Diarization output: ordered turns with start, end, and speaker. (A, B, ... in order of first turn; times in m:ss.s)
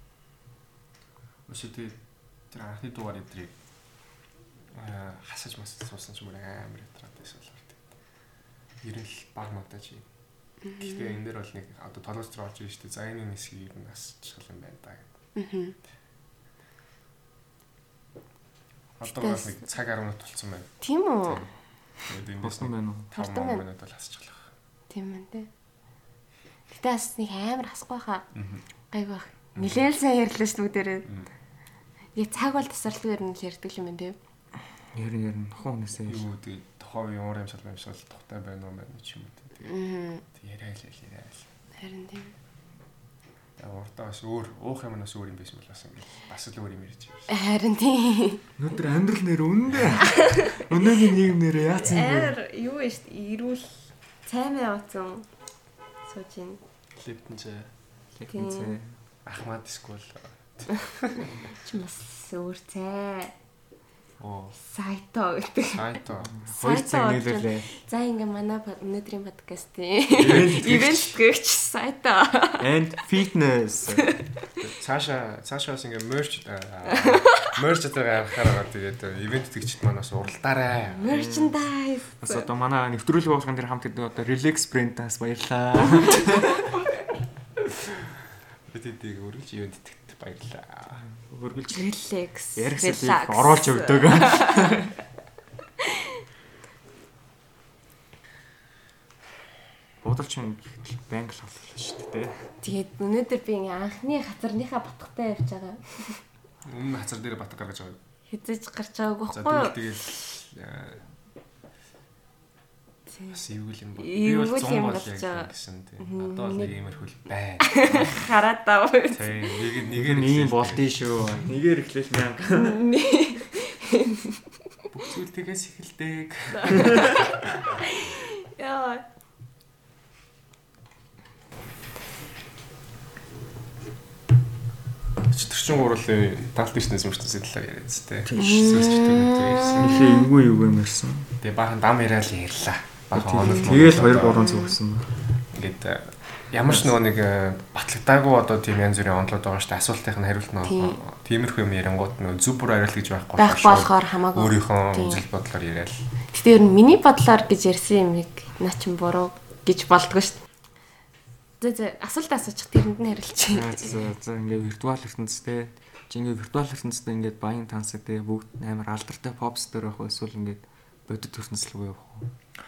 0:01.5-0:03.6 A
0:04.7-0:07.8 A
0:08.8-0:10.1 A
0:10.6-0:11.2 B
0:10.8-0:15.1 A
0:15.4-0:15.8 B
0:19.0-0:20.7 A
0:19.1-0:19.6 B
0:20.8-0:21.5 B
0:21.3-0:21.5 A
0:22.0-0:24.5 A
0:22.4-0:23.1 C
0:23.1-0:23.6 B
0:24.9-0:25.5 B
0:26.7-0:28.3 B
0:28.3-0:28.6 A
0:28.9-0:31.1 B
0:29.6-0:29.9 A
0:32.2-0:34.2 B
0:34.9-0:36.3 C
0:36.1-0:39.7 A
0:39.6-0:40.2 B
0:40.3-0:41.5 A
0:41.8-0:42.4 B
0:43.6-0:47.3 A
0:47.3-0:48.4 B
0:48.6-0:52.4 C
0:51.9-0:55.3 B
0:56.1-0:56.6 B
0:57.0-0:57.7 A
0:58.2-0:59.0 C
0:58.3-0:58.8 B
0:59.3-1:01.3 A
1:01.5-1:03.3 B
1:04.2-1:04.6 A
1:04.6-1:06.0 B
1:05.7-1:06.3 A
1:06.2-1:07.7 C
1:06.6-1:12.6 B
1:10.2-1:11.2 C
1:10.3-1:10.6 A
1:12.6-1:14.1 C
1:14.6-1:21.0 A
1:17.0-1:17.5 B
1:21.0-1:22.5 B
1:21.1-1:21.6 C
1:22.2-1:26.6 C
1:28.7-1:31.0 A
1:31.2-1:31.9 C
1:31.7-1:34.8 B
1:32.6-1:34.9 C
1:40.0-1:42.4 C
1:42.6-1:46.2 B
1:46.6-1:48.0 A
1:48.3-1:49.8 B
1:49.3-1:51.1 A
1:53.1-1:53.4 B
1:53.3-1:58.1 A
1:54.0-1:55.5 B
1:56.0-1:56.7 B
1:57.7-1:59.5 B
1:59.1-2:01.3 A
2:00.0-2:02.9 C
2:02.5-2:04.4 B
2:05.0-2:06.9 A
2:06.5-2:09.1 B
2:06.7-2:07.1 C
2:15.2-2:20.1 A
2:18.3-2:18.7 C
2:18.4-2:20.3 B
2:19.8-2:21.3 C
2:21.4-2:24.5 A
2:23.2-2:25.1 C
2:24.3-2:24.8 B
2:25.5-2:36.0 A
2:30.6-2:31.0 B
2:33.4-2:35.2 B
2:36.3-2:40.4 B
2:41.6-2:44.0 B
2:43.5-2:52.3 C